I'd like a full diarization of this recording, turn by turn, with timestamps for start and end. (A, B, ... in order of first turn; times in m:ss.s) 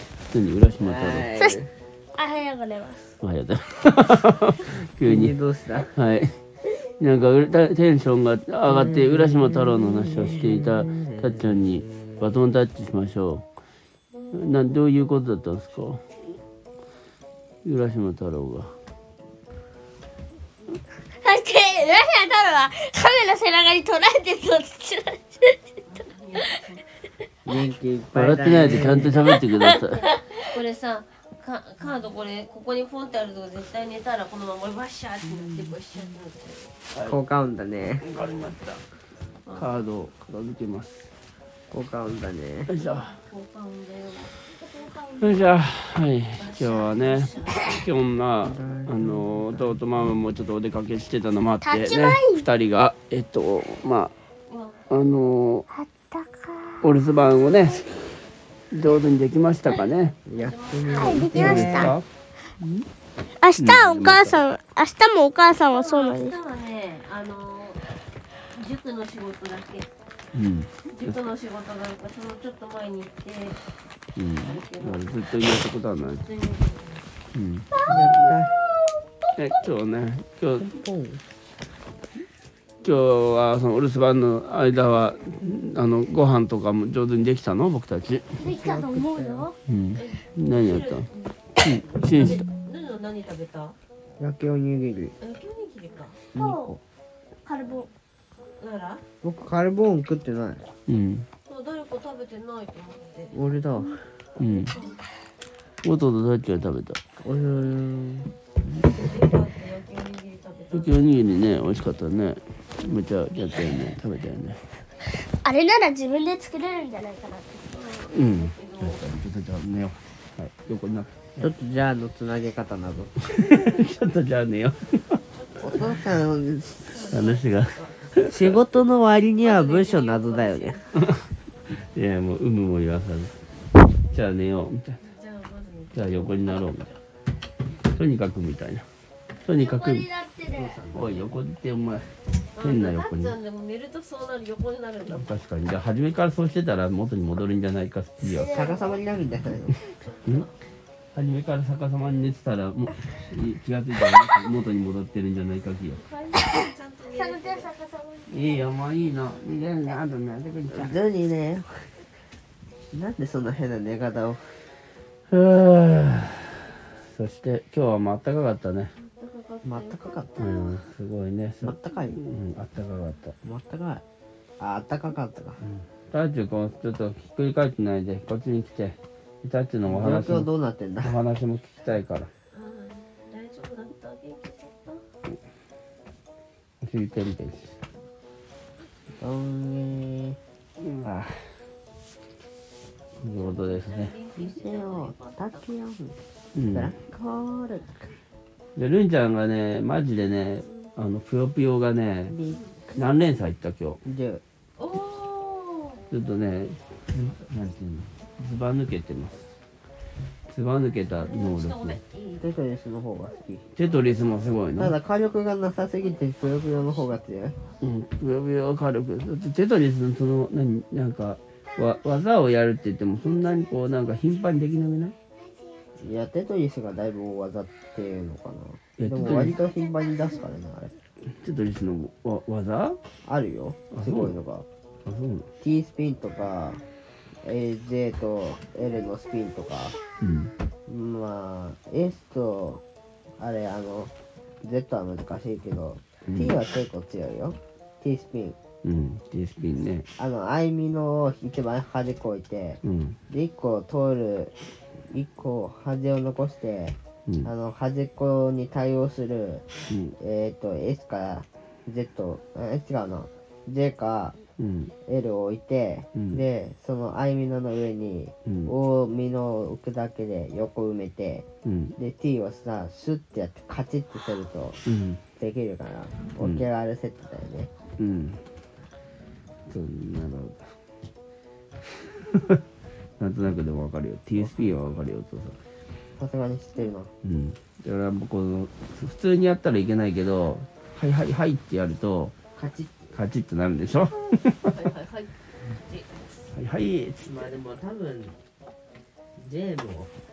0:00.3-0:01.3 A
0:00.8-0:01.7 B
0:02.2-0:03.1 C
0:03.2-0:05.3 A
0:05.0-0:05.9 B
0:05.9-0:06.4 A
0:06.9-0:13.4 A
0:08.6-0:12.3 B
0:14.3-0:16.0 A
0:17.6-0:18.7 A
0:21.1-0:25.6 C
0:25.9-0:26.8 D
0:27.4-0:29.2 B
0:28.1-0:30.0 A
0:28.9-0:30.4 C
0:30.4-0:36.7 D
0:36.9-0:37.2 A
0:37.0-0:38.0 B
0:38.0-0:38.8 A
0:39.4-0:39.7 D
0:39.6-0:41.1 A
0:41.7-0:42.7 B
0:42.7-0:43.2 A
0:42.7-0:44.4 D
0:44.6-0:45.5 C
0:45.2-0:54.1 A
0:46.4-0:47.7 D
0:48.4-0:49.8 B
0:51.6-0:52.4 C
0:54.5-0:54.8 D
0:54.9-0:55.6 A
0:55.7-0:57.0 C
0:56.8-0:58.2 A
0:58.7-1:00.2 A
1:00.2-1:02.0 B
1:00.4-1:01.3 D
1:00.9-1:02.0 C
1:01.2-1:02.0 A
1:02.6-1:02.8 A
1:03.4-1:06.4 C
1:03.6-1:04.4 A
1:05.6-1:07.8 D
1:08.5-1:09.9 D
1:10.3-1:11.2 A
1:10.9-1:13.6 D
1:14.2-1:16.2 A
1:14.4-1:15.2 D
1:16.2-1:17.0 D
1:17.3-1:18.3 A
1:17.8-1:18.6 B
1:19.4-1:20.7 A
1:20.6-1:21.2 B
1:22.8-1:28.4 A
1:28.4-1:29.5 C
1:28.4-1:29.5 B
1:29.7-1:31.1 A
1:29.9-1:33.8 D
1:31.6-1:32.4 A
1:34.2-1:35.1 B
1:35.2-1:36.2 D
1:36.3-1:36.8 B
1:36.4-1:36.8 C
1:37.4-1:37.9 C
1:38.6-1:39.0 D
1:39.2-1:40.7 B
1:40.9-1:41.3 A
1:41.4-1:43.4 D
1:43.3-1:44.0 B
1:44.4-1:44.7 A
1:44.5-1:45.0 D
1:45.8-1:47.0 A
1:47.2-1:48.3 B
1:48.8-1:51.1 D
1:50.7-1:54.6 A
1:55.1-1:58.0 C
1:57.7-1:59.0 D
1:58.1-2:01.5 A
2:01.4-2:03.1 B
2:03.2-2:05.2 A
2:05.4-2:06.0 D
2:05.6-2:07.0 B
2:06.9-2:08.1 D
2:07.0-2:08.5 A
2:08.2-2:10.8 B
2:09.4-2:10.9 D
2:10.9-2:13.4 A
2:14.0-2:15.0 A
2:15.0-2:16.7 D
2:15.9-2:17.0 A
2:17.9-2:18.8 A
2:19.4-2:20.1 A
2:19.5-2:20.8 C
2:20.5-2:21.3 B
2:20.9-2:23.3 A
2:22.6-2:25.3 D
2:25.1-2:28.6 A
2:28.2-2:29.0 C
2:28.4-2:29.8 B
2:29.9-2:30.5 D
2:31.1-2:36.0 A
2:36.1-2:38.7 C
2:36.3-2:37.7 D
2:38.3-2:41.0 A
2:40.7-2:41.8 B
2:42.9-2:44.5 B
2:45.3-2:48.9 A
2:49.0-2:50.8 D
2:49.6-2:50.5 B
2:50.4-2:53.4 A
2:51.6-2:52.2 B
2:53.4-2:54.0 B
2:54.6-2:55.6 B
2:55.6-3:00.5 A
2:59.9-3:01.2 B
3:01.0-3:02.3 A
3:02.5-3:05.0 D
3:06.8-3:07.8 A
3:09.2-3:10.4 B
3:10.8-3:11.1 A
3:11.0-3:11.4 B
3:13.2-3:14.1 A
3:13.3-3:15.7 D
3:14.4-3:16.2 B
3:16.5-3:16.9 A
3:16.7-3:18.1 B
3:18.8-3:22.4 A
3:22.3-3:23.0 B
3:22.9-3:24.0 A
3:24.0-3:24.4 B
3:24.8-3:26.0 D
3:26.1-3:29.5 A
3:30.5-3:32.0 A
3:31.1-3:32.4 D
3:32.4-3:33.6 B
3:33.8-3:35.0 A
3:34.8-3:37.6 B
3:37.8-3:45.1 A
3:45.4-3:45.9 C
3:46.0-3:50.9 B
3:49.0-3:49.6 A
3:49.8-3:50.3 C
3:51.3-3:53.0 A
3:53.2-3:54.6 B
3:53.9-3:54.4 A
3:55.0-3:55.5 A
3:55.6-3:56.8 B
3:57.4-4:00.0 B
4:00.2-4:00.5 A
4:00.9-4:02.8 B
4:03.4-4:04.1 B
4:04.6-4:08.6 B
4:06.3-4:06.6 A
4:08.8-4:10.1 A
4:10.2-4:14.5 B
4:12.8-4:13.2 A
4:15.1-4:19.6 B
4:17.2-4:17.5 A
4:19.9-4:20.2 A
4:20.2-4:24.4 B
4:24.6-4:24.9 A
4:25.0-4:34.8 B
4:26.1-4:26.4 A
4:28.4-4:28.7 A
4:31.6-4:31.9 A
4:34.8-4:35.2 A
4:35.4-4:37.7 B
4:36.4-4:36.6 A
4:38.0-4:38.4 A
4:39.7-4:40.7 A
4:41.8-4:42.6 A
4:43.2-4:45.6 A
4:46.2-4:47.1 B
4:47.2-4:52.3 A
4:52.6-4:53.1 B
4:53.1-4:54.7 A
4:54.6-4:56.3 D
4:56.5-4:57.3 A
4:57.2-4:58.4 B
4:59.4-5:00.1 B